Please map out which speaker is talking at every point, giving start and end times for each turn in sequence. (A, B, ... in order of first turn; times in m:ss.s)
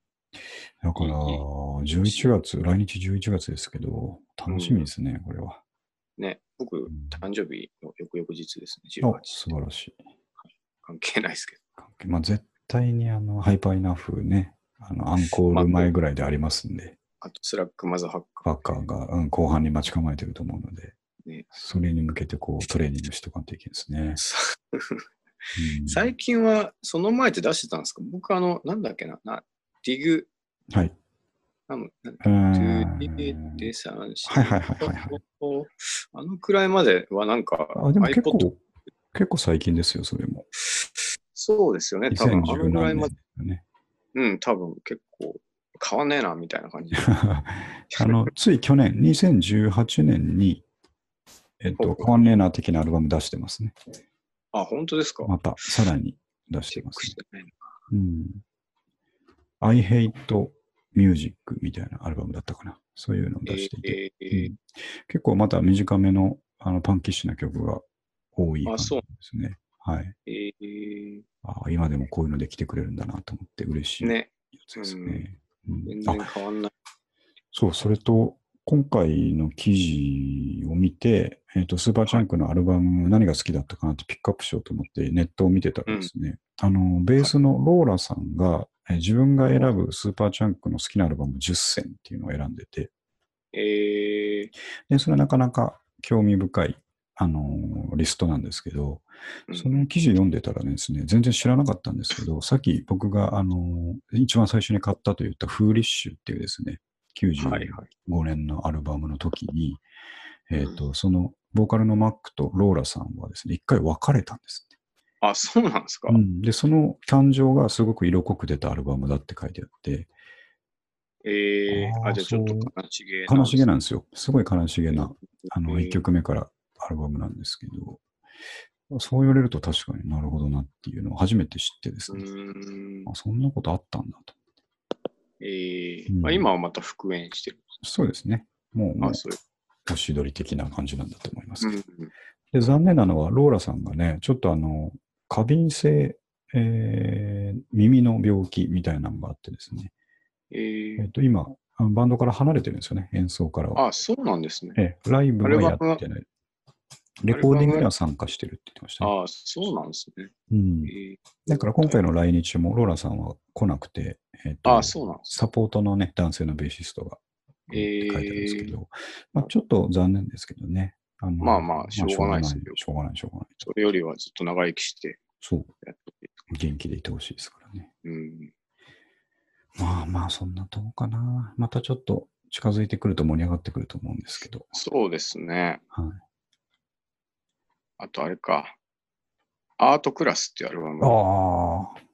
0:00.8-0:05.6 A
0:01.0-0:01.4 B
0:04.5-0:04.9 B
0:06.2-0:09.4 B
0:06.9-0:07.2 A
0:09.0-0:10.0 A
0:10.8-0:11.6 B
0:11.8-0:17.0 A
0:15.5-0:15.9 B
0:17.2-0:18.7 B
0:18.4-0:21.0 A
0:21.5-0:24.2 A
0:24.2-0:25.0 B
0:25.6-0:26.1 A
0:25.9-0:30.3 B
0:31.7-0:38.5 B
0:32.2-0:33.7 A
0:34.3-0:35.2 A
0:37.7-0:38.6 A
0:39.1-0:40.5 A
0:40.7-0:43.1 B
0:42.1-0:43.6 A
0:44.2-0:47.1 B
0:47.0-0:50.6 A
0:47.9-0:48.3 B
0:51.6-0:53.8 A
0:51.8-0:52.4 B
0:54.5-0:55.3 B
0:55.2-0:57.2 A
0:56.7-0:57.7 B
0:57.9-0:58.4 A
0:59.6-1:10.1 A
1:03.5-1:04.5 B
1:08.7-1:09.0 B
1:10.3-1:11.2 B
1:11.4-1:16.3 A
1:14.0-1:15.3 B
1:15.9-1:16.7 B
1:17.5-1:32.9 A
1:33.5-1:34.5 B
1:34.9-1:49.8 A
1:39.5-1:39.9 B
1:47.4-1:47.9 B
1:50.5-1:54.7 A
1:55.2-1:56.2 B
1:56.1-2:00.1 A
2:01.2-2:03.7 B
2:01.7-2:02.7 A
2:03.3-2:08.0 A
2:05.7-2:06.0 B
2:08.9-2:12.3 A
2:12.1-2:13.1 B
2:13.1-2:14.4 A
2:15.4-2:17.7 B
2:16.1-2:16.5 A
2:17.8-2:19.2 A
2:19.0-2:19.4 B
2:19.9-2:21.8 A
2:21.6-2:22.1 B
2:22.5-2:29.9 A
2:30.5-2:31.1 B
2:31.0-2:33.8 A
2:33.8-2:34.8 B
2:34.8-2:36.3 A
2:35.4-2:36.0 B
2:37.2-2:39.1 A
2:37.3-2:37.9 B
2:39.0-2:40.3 B
2:40.5-2:40.9 A
2:40.9-2:42.0 B
2:41.5-2:47.2 A
2:44.6-2:45.3 B
2:47.7-2:48.7 B
2:47.7-2:53.6 A
2:51.4-2:52.8 B
2:53.6-2:55.2 B
2:55.4-2:55.7 A
2:55.8-2:56.3 B
2:56.5-2:57.9 A
2:58.0-2:58.5 B
2:59.8-3:04.7 A
3:04.7-3:05.8 B
3:05.9-3:06.2 A
3:08.0-3:08.8 B
3:09.8-3:11.2 B
3:11.0-3:12.0 A